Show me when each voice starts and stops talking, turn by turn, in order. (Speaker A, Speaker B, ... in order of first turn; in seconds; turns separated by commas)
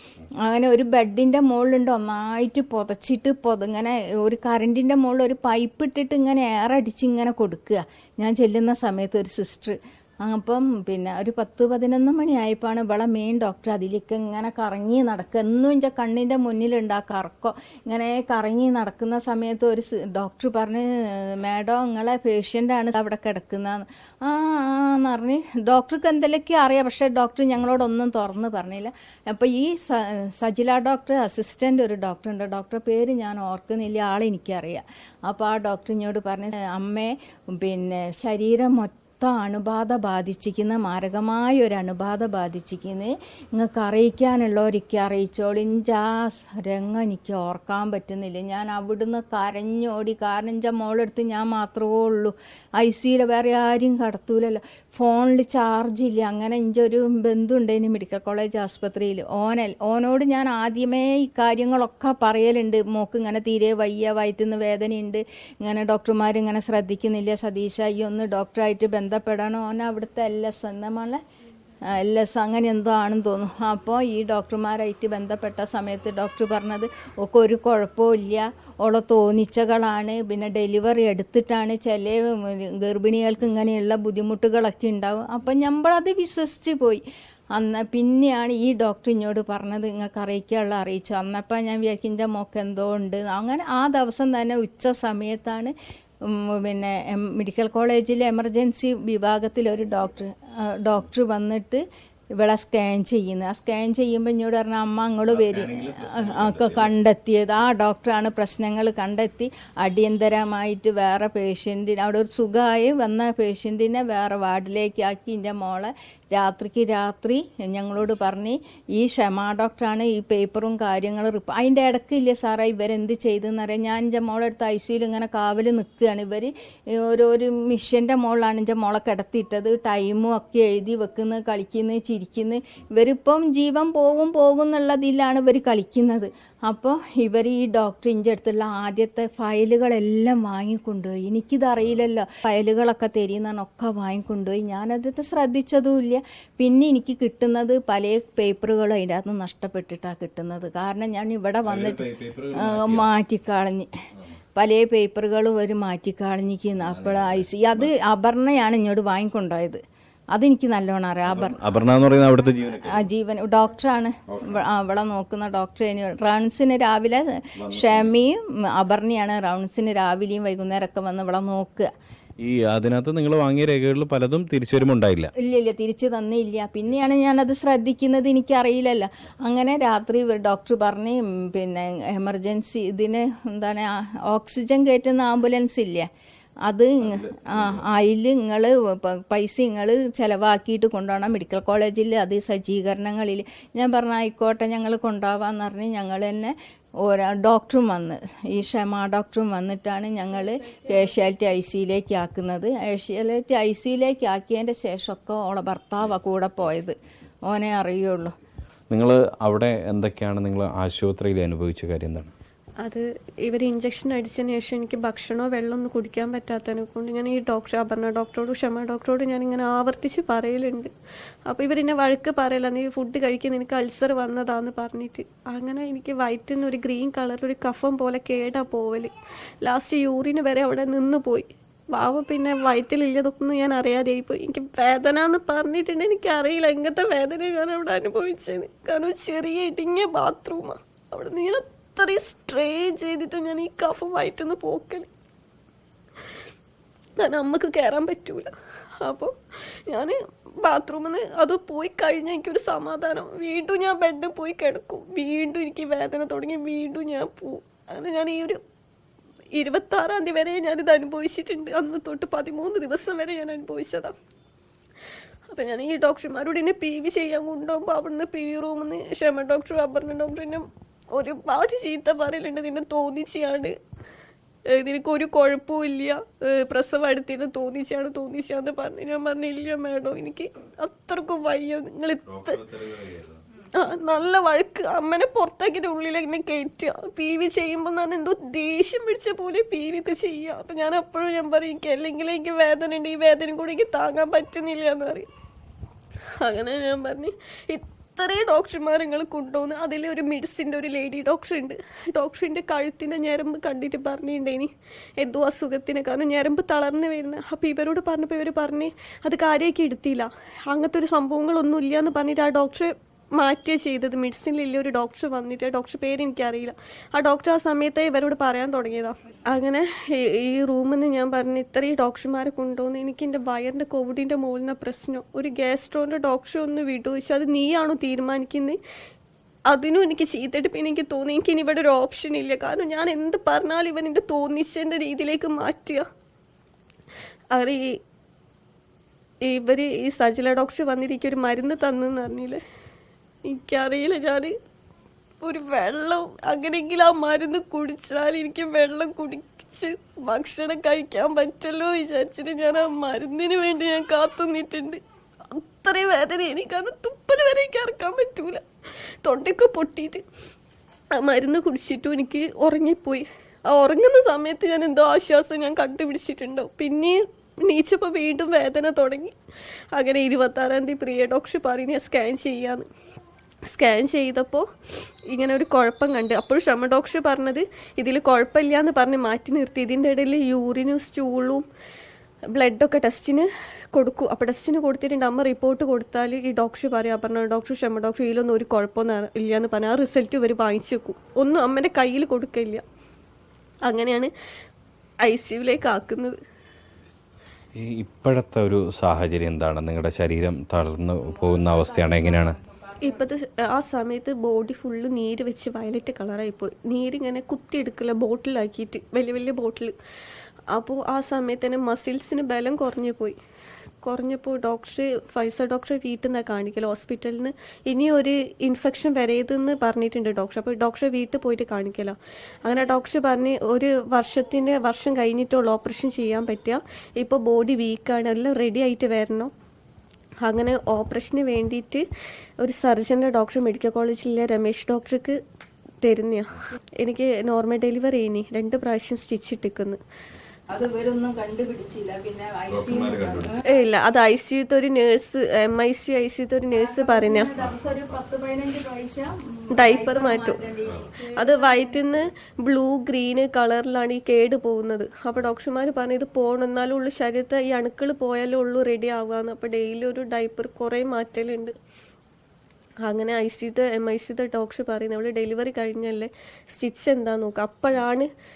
Speaker A: 0.4-71.2, Speaker A: 71.8-87.0, Speaker A: 87.5-101.8, Speaker A: 102.4-153.9, Speaker B: 105.3-106.9, Speaker B: 151.7-153.1, Speaker A: 154.6-159.8, Speaker B: 156.8-157.9, Speaker A: 160.3-161.6, Speaker B: 161.3-163.1, Speaker A: 162.8-171.9, Speaker B: 164.3-164.6, Speaker B: 167.6-168.1, Speaker B: 172.4-175.3, Speaker A: 175.3-186.1, Speaker A: 186.7-208.3, Speaker B: 187.0-187.9, Speaker B: 208.9-212.3, Speaker C: 212.8-220.9, Speaker C: 221.5-245.1, Speaker C: 247.2-249.3, Speaker C: 249.9-258.6, Speaker C: 259.6-264.1, Speaker C: 265.5-273.8, Speaker C: 274.7-282.6, Speaker B: 282.3-283.4, Speaker C: 283.7-295.3, Speaker C: 296.4-328.8, Speaker C: 329.7-336.1, Speaker C: 337.5-338.0, Speaker C: 339.4-342.6, Speaker C: 343.4-344.6, Speaker C: 345.4-358.6, Speaker C: 359.2-360.2, Speaker C: 361.1-369.4, Speaker C: 369.9-372.9, Speaker C: 373.7-374.7, Speaker C: 375.3-381.6, Speaker C: 382.5-392.8, Speaker C: 393.9-394.3, Speaker C: 395.2-396.4, Speaker B: 397.8-402.6, Speaker C: 403.0-409.9, Speaker C: 410.7-413.4, Speaker C: 414.0-429.5, Speaker C: 430.4-432.1, Speaker C: 432.6-435.4, Speaker C: 436.0-440.0, Speaker A: 440.7-443.6, Speaker B: 442.7-443.6, Speaker C: 443.7-447.5, Speaker A: 446.7-452.1, Speaker C: 449.7-450.6, Speaker C: 451.4-461.7, Speaker C: 463.1-468.3